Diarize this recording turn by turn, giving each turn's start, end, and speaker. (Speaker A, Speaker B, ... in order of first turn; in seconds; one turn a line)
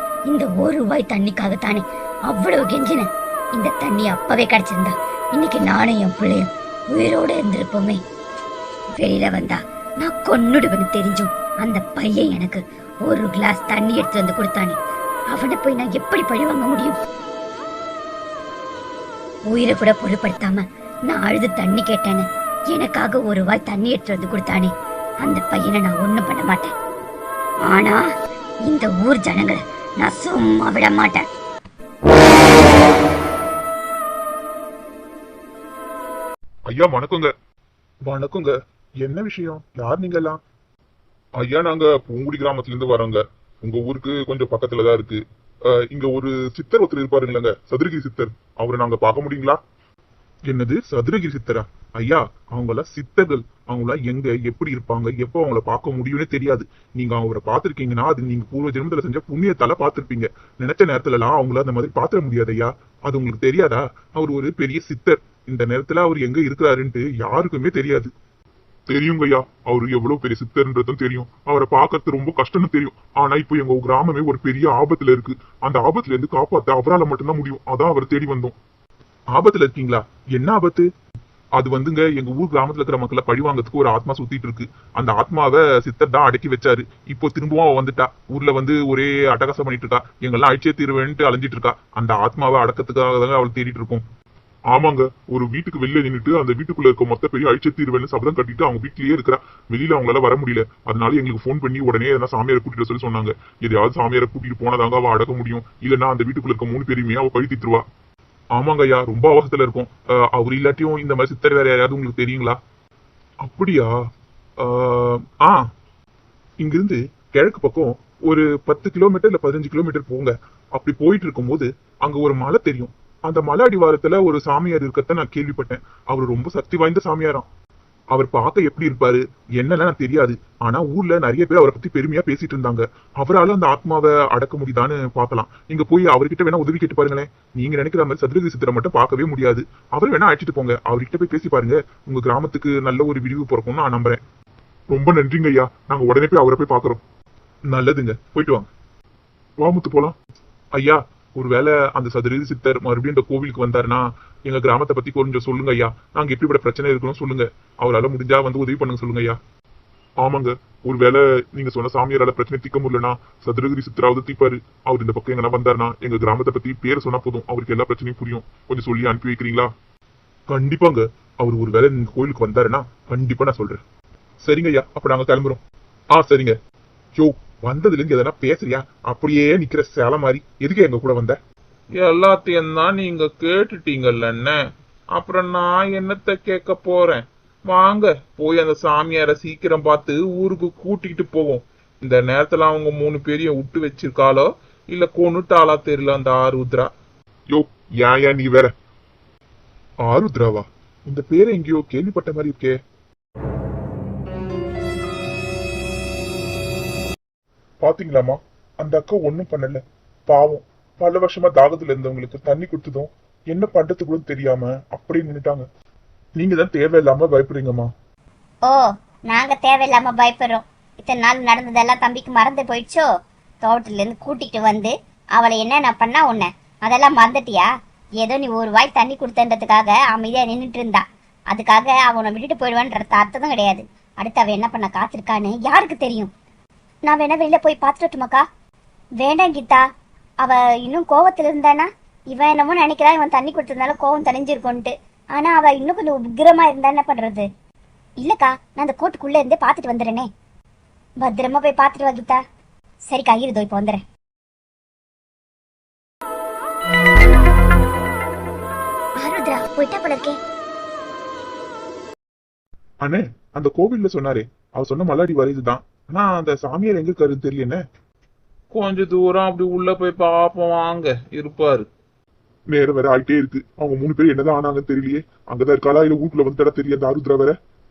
Speaker A: 0.3-8.0
Speaker A: 9.0-14.8
Speaker A: 15.3-17.0
Speaker A: 19.5-26.7
Speaker A: 27.7-28.0
Speaker A: 28.7-31.3
Speaker B: 36.7-37.3
Speaker B: 38.0-40.4
Speaker B: 41.4-49.6
Speaker B: 50.5-68.1
Speaker B: 68.9-78.6
Speaker B: 79.3-80.9
Speaker B: 81.6-94.0
Speaker B: 94.7-107.8
Speaker B: 108.5-112.6
Speaker B: 113.4-113.9
Speaker B: 114.6-115.6
Speaker B: 116.6-127.5
Speaker B: 128.1-144.2
Speaker B: 144.9-147.0
Speaker B: 147.7-148.7
Speaker B: 149.6-150.2
Speaker B: 150.7-159.4
Speaker B: 160.2-169.7
Speaker B: 170.5-173.8
Speaker B: 174.4-175.6
Speaker B: 176.1-176.6
Speaker B: 177.2-181.4
Speaker C: 182.0-184.5
Speaker B: 182.5-184.4
Speaker C: 185.2-187.0
Speaker B: 186.0-187.2
Speaker C: 187.7-196.9
Speaker B: 187.8-191.6
Speaker B: 193.6-194.2
Speaker B: 197.5-198.7
Speaker B: 200.0-202.8
Speaker B: 207.8-215.7
Speaker B: 216.4-217.9
Speaker D: 218.7-223.1
Speaker D: 223.6-227.7
Speaker D: 228.2-236.3
Speaker D: 237.1-238.4
Speaker D: 239.2-239.8
Speaker D: 240.4-247.4
Speaker D: 248.2-250.3
Speaker D: 251.2-252.4
Speaker D: 253.1-254.0
Speaker D: 259.2-260.4
Speaker B: 263.0-267.8
Speaker C: 268.8-269.2
Speaker B: 268.8-271.8
Speaker C: 270.2-271.9
Speaker B: 272.7-277.6